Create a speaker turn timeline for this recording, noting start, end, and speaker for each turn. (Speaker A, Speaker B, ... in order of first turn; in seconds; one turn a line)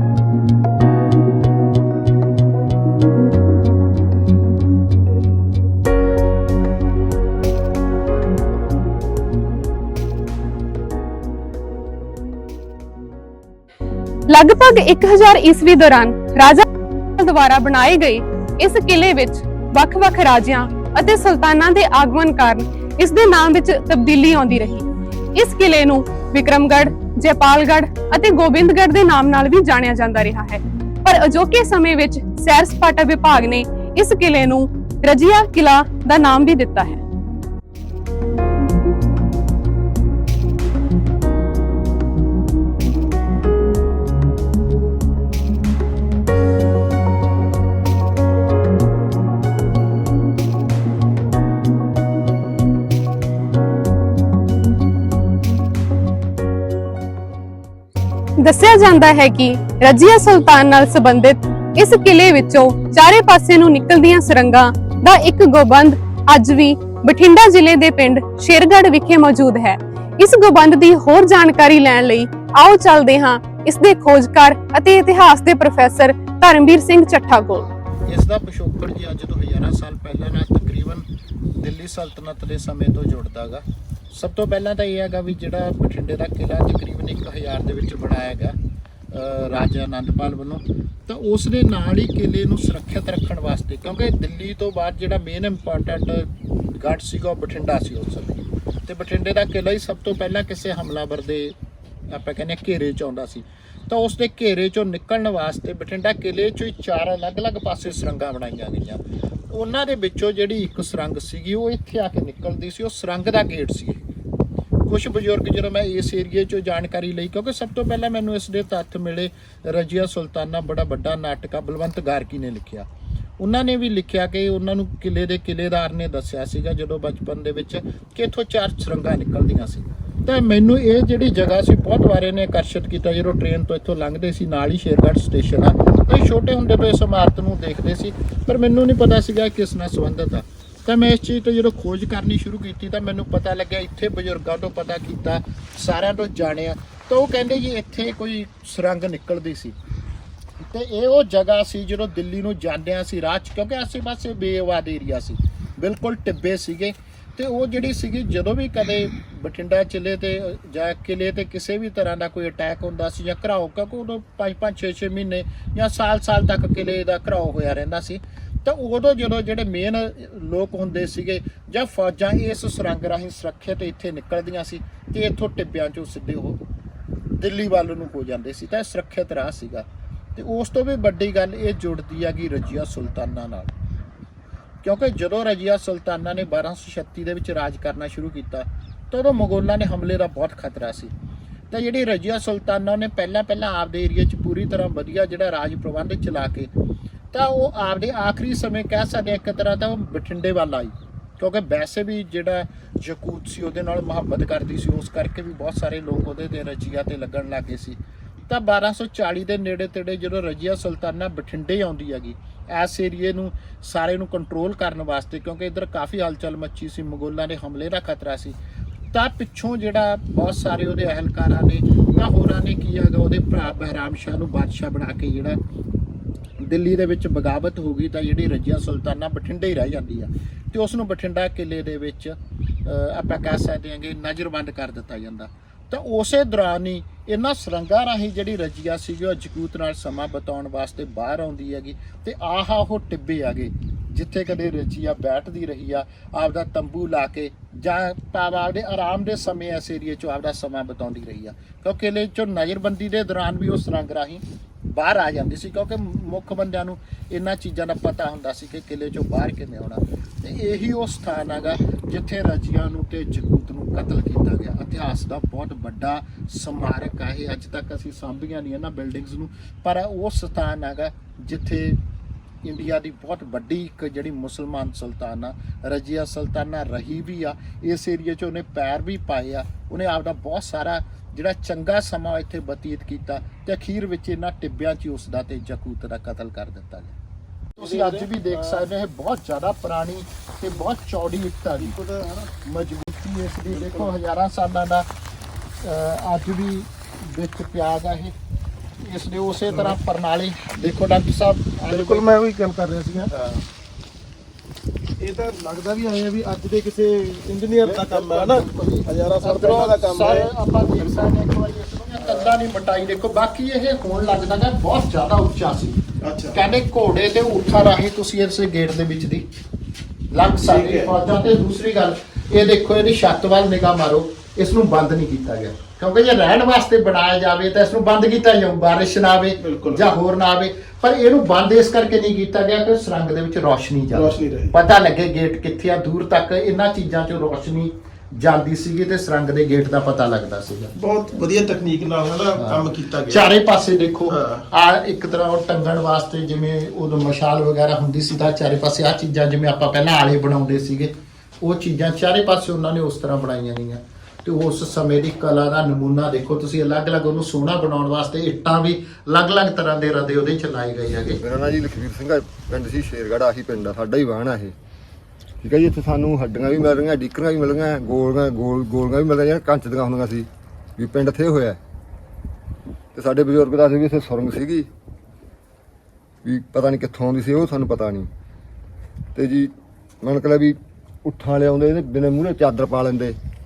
Speaker A: 14.3-37.0
Speaker A: 58.4-77.7
Speaker B: 78.0-81.0
Speaker B: 81.6-88.5
Speaker B: 89.1-101.5
Speaker B: 102.1-114.0
Speaker B: 114.8-122.9
Speaker B: 123.4-149.8
Speaker B: 150.6-176.6
Speaker B: 177.3-183.7
Speaker B: 184.8-191.1
Speaker B: 191.7-196.7
Speaker B: 197.3-218.6
Speaker B: 219.1-225.6
Speaker B: 226.6-272.0
Speaker B: 272.6-287.1
Speaker C: 287.8-288.8
Speaker B: 287.8-292.0
Speaker C: 291.8-292.5
Speaker B: 292.6-295.1
Speaker C: 293.7-294.1
Speaker B: 295.8-298.3
Speaker B: 299.0-302.3
Speaker C: 301.9-303.6
Speaker C: 305.2-310.5
Speaker B: 308.1-316.0
Speaker C: 312.2-312.5
Speaker C: 316.2-316.6
Speaker B: 316.5-319.4
Speaker B: 320.3-340.9
Speaker C: 320.6-321.1
Speaker C: 329.6-330.1
Speaker C: 334.1-334.7
Speaker C: 340.9-343.5
Speaker B: 342.6-361.4
Speaker C: 344.3-344.6
Speaker D: 361.4-364.7
Speaker D: 365.6-371.8
Speaker D: 373.1-374.9
Speaker D: 376.4-378.3
Speaker D: 379.3-383.4